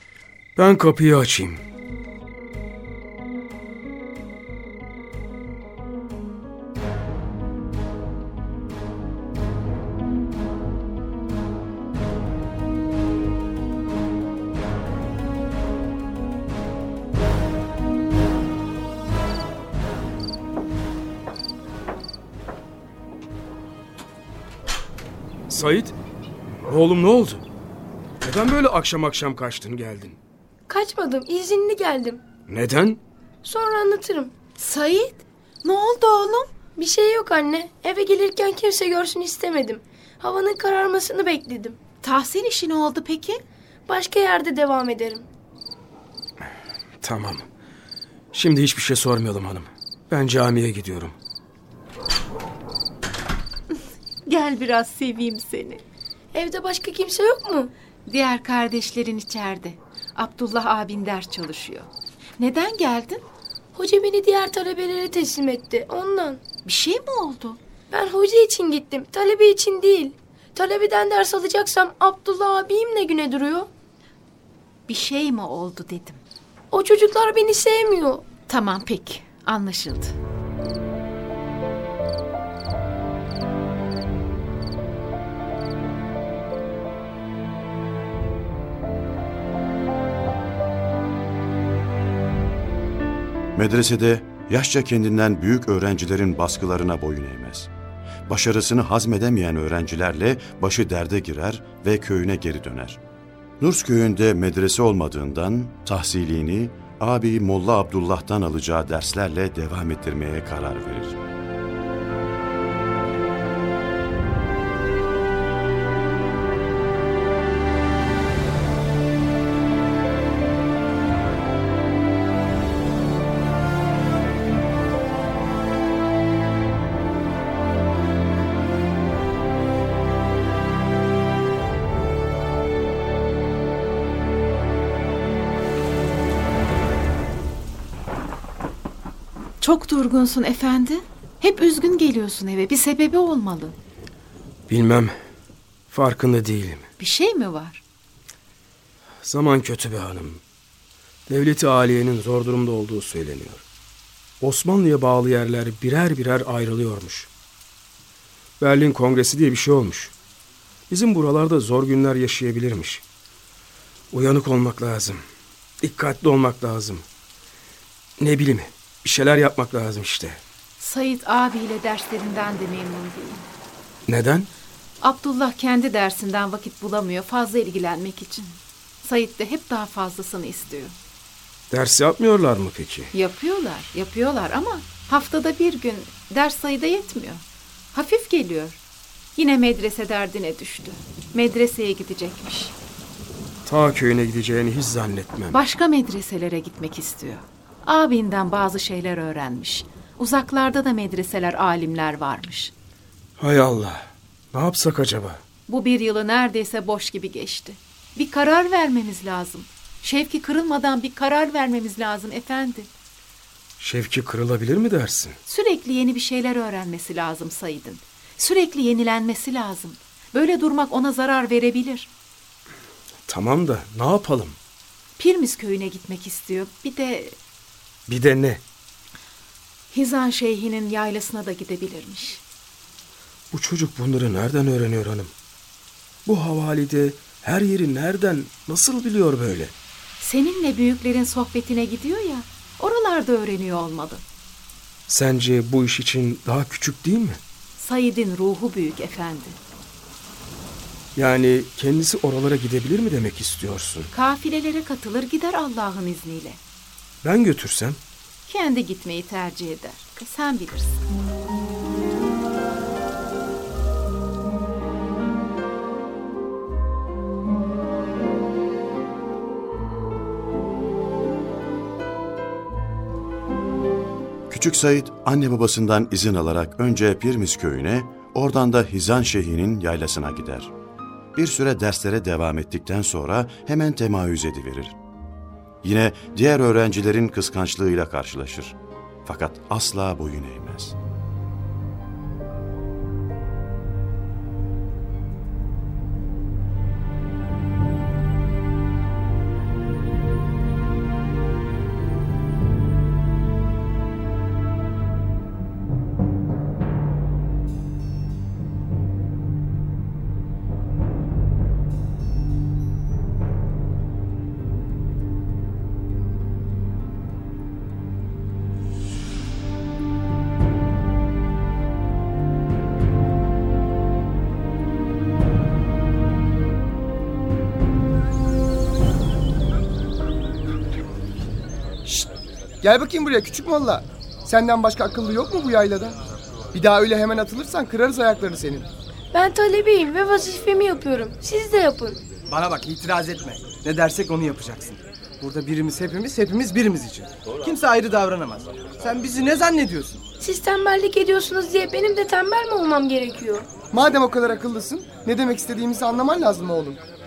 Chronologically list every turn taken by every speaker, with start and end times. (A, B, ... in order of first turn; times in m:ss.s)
0:00.6-0:01.6 A
0:25.5-0:26.0 A
0:26.7-0:27.4 A
0:28.2-0:30.2 A
0:30.7-0:32.2 B
0:32.5-0:33.0 A
0:33.4-0:34.3 B
0:34.6-0:36.5 C
0:36.8-0:41.8 B
0:42.0-0:43.4 C
0:43.9-0:45.3 B
0:47.0-0:47.4 A
0:48.3-0:51.2 A
0:54.2-0:55.8 C
0:56.3-0:57.7 B
0:58.1-1:03.2 C
1:03.8-1:06.4 B
1:06.6-1:07.6 C
1:07.9-1:13.7 B
1:14.9-1:16.2 C
1:16.7-1:18.3 B
1:18.5-1:20.2 C
1:33.6-1:37.7 D
1:38.3-1:43.0 D
1:43.6-1:51.2 D
2:19.6-2:23.8 C
2:24.7-2:25.2 A
2:25.9-2:26.9 A
2:27.0-2:27.8 C
2:29.2-2:30.4 A
2:31.3-2:33.6 A
2:34.4-2:37.3 A
2:38.6-2:40.1 A
2:40.9-2:43.0 A
2:44.1-2:45.2 A
2:45.8-2:47.0 A
2:48.2-2:50.4 A
2:50.8-2:53.5 C
2:54.1-2:54.5 A
2:55.0-3:01.0 C
3:01.7-3:03.1 A
3:03.1-3:08.8 C
3:09.4-3:12.8 C
3:13.7-3:15.6 A
3:15.5-3:22.7 C
3:23.4-3:25.4 A
3:25.7-3:32.9 C
3:33.8-3:35.4 A
3:35.4-3:42.1 C
3:43.3-3:44.6 A
3:45.2-3:47.4 C
3:48.1-3:48.6 A
3:49.9-3:52.4 C
3:53.5-3:55.3 A
3:56.3-3:59.7 A
4:00.2-4:04.2 C
4:05.1-4:07.4 A
4:07.8-4:09.6 C
4:11.2-4:14.1 A
4:14.1-4:16.6 C
4:17.2-4:18.0 A
4:18.5-4:21.0 C
4:34.5-4:40.7 D
4:41.4-4:45.0 D
4:45.8-4:51.0 D
5:32.8-5:36.2 E
5:36.7-5:38.9 E
5:39.3-5:42.2 B
5:42.5-5:50.2 F
5:50.4-5:53.7 B
5:53.9-5:57.0 E